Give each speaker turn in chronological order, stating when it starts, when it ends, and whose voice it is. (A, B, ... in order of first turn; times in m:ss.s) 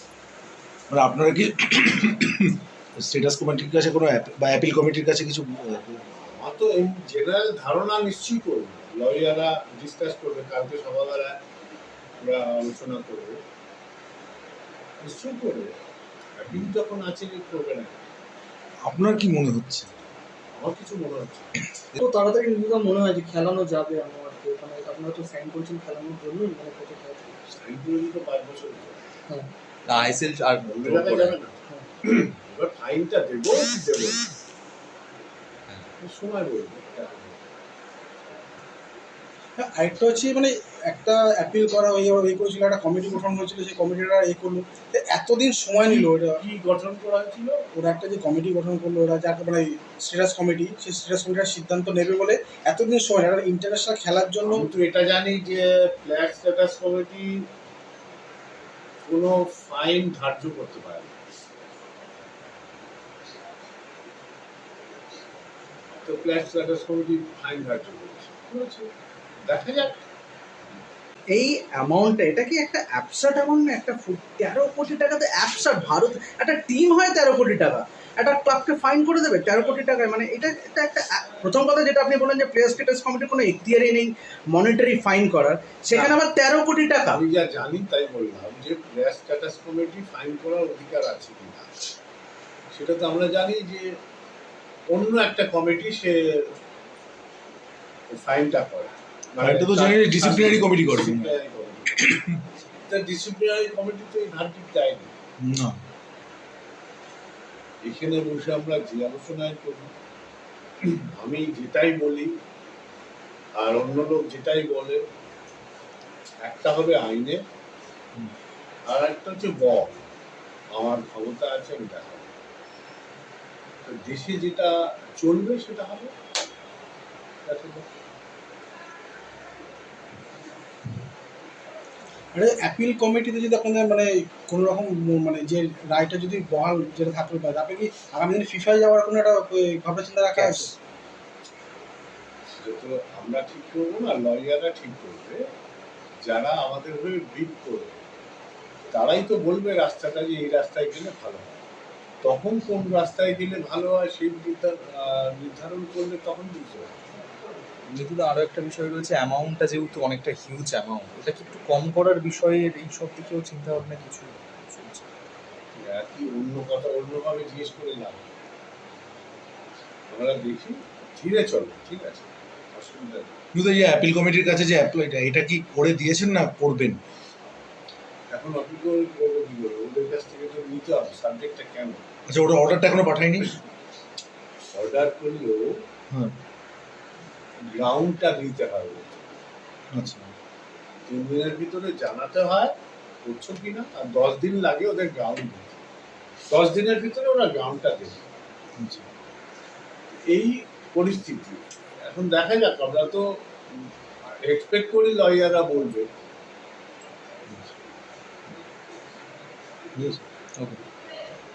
0:00.9-0:06.0 A
0:06.2-0:11.4 B
0:12.2-0:13.4 B
0:15.0-0:15.8 B
0:16.4-0:18.1 B
0:18.8-0:19.9 A
0:20.6-0:21.5 B
0:22.1-0:23.9 C
0:23.8-0:27.2 D
0:25.1-0:26.8 C
0:27.5-0:29.0 B
0:29.9-0:31.4 E
0:30.7-0:34.2 B
0:36.0-0:37.4 B
0:39.6-0:46.4 F
0:45.9-0:47.6 B
0:47.7-0:54.7 F
0:54.4-0:57.5 B
0:59.1-1:01.2 B
1:06.0-1:08.9 B
1:09.4-1:10.0 B
1:11.3-1:27.2 D
1:25.9-1:26.2 B
1:27.1-1:31.7 B
1:32.7-1:33.9 B
1:34.9-1:36.5 B
1:38.1-1:42.1 B
1:39.4-1:41.3 A
1:42.0-1:42.4 A
1:42.9-1:45.2 B
1:45.4-1:45.8 A
1:47.8-1:49.9 B
1:51.0-1:52.4 B
1:53.6-1:55.0 B
1:56.4-1:57.4 B
1:58.9-2:00.0 B
2:00.7-2:02.3 B
2:03.8-2:06.1 B
2:07.5-2:07.9 B
2:12.3-2:20.7 F
2:22.6-2:25.4 B
2:26.2-2:28.0 B
2:28.9-2:31.6 B
2:32.2-2:36.9 B
2:37.9-2:45.0 E
2:45.8-2:48.3 B
2:50.1-2:53.3 B
2:53.5-2:57.0 A
2:58.3-3:02.0 B
3:02.3-3:03.6 A
3:04.7-3:05.8 B
3:06.1-3:06.4 A
3:07.7-3:09.1 B
3:09.9-3:10.3 A
3:11.1-3:15.8 B
3:16.5-3:18.2 B
3:18.8-3:19.1 A
3:20.3-3:23.4 B
3:24.4-3:26.1 B
3:30.0-3:30.2 A